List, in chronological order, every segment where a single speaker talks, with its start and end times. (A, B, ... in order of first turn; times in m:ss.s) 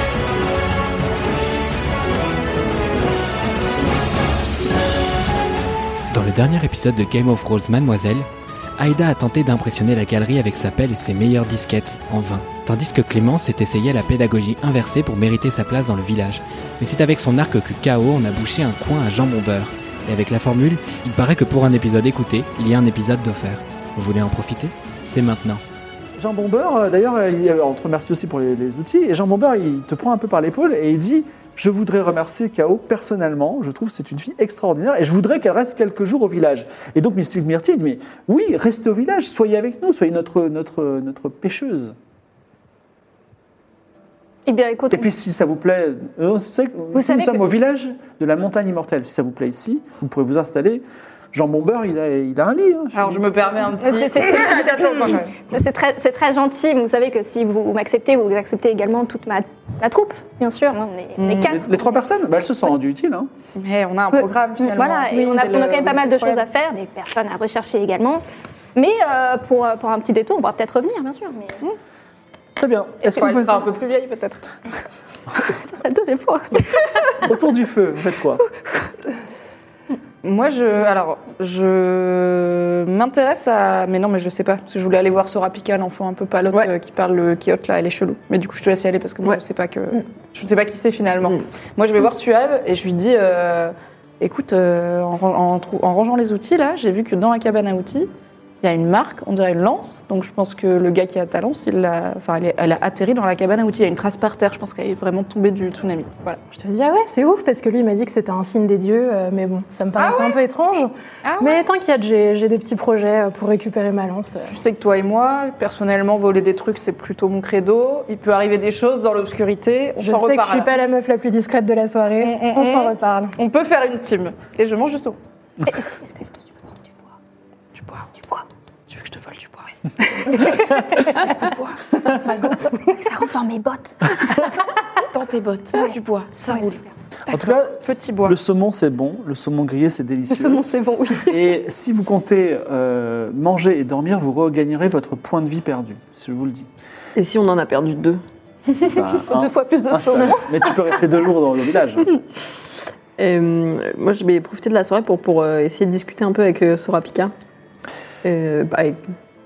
0:06.1-0:25.6 A
0:26.2-0:42.0 B
0:44.5-0:45.1 C
0:44.9-0:53.3 B
0:46.9-0:47.4 C
0:52.9-0:55.3 D
0:53.8-1:02.0 C
1:01.2-1:01.6 D
1:01.4-1:03.3 B
1:03.6-1:06.4 D
1:04.1-1:08.2 C
1:08.8-1:11.6 C
1:12.6-1:13.6 B
1:13.0-1:14.4 D
1:15.4-1:17.2 C
1:17.2-1:18.4 B
1:20.2-1:38.1 D
1:38.6-1:46.4 D
1:46.5-1:54.5 E
1:50.0-1:50.4 D
1:51.2-1:51.6 D
1:54.5-2:00.7 D
2:00.0-2:03.4 E
2:02.2-2:05.2 D
2:05.7-2:06.4 C
2:07.8-2:08.1 D
2:08.9-2:11.8 D
2:12.1-2:14.5 C
2:15.1-2:18.4 D
2:17.3-2:20.7 B
2:20.3-2:21.4 C
2:21.2-2:26.7 B
2:27.2-2:28.2 F
2:28.9-2:32.2 B
2:29.3-2:30.6 C
2:33.2-2:37.3 F
2:38.2-2:39.0 F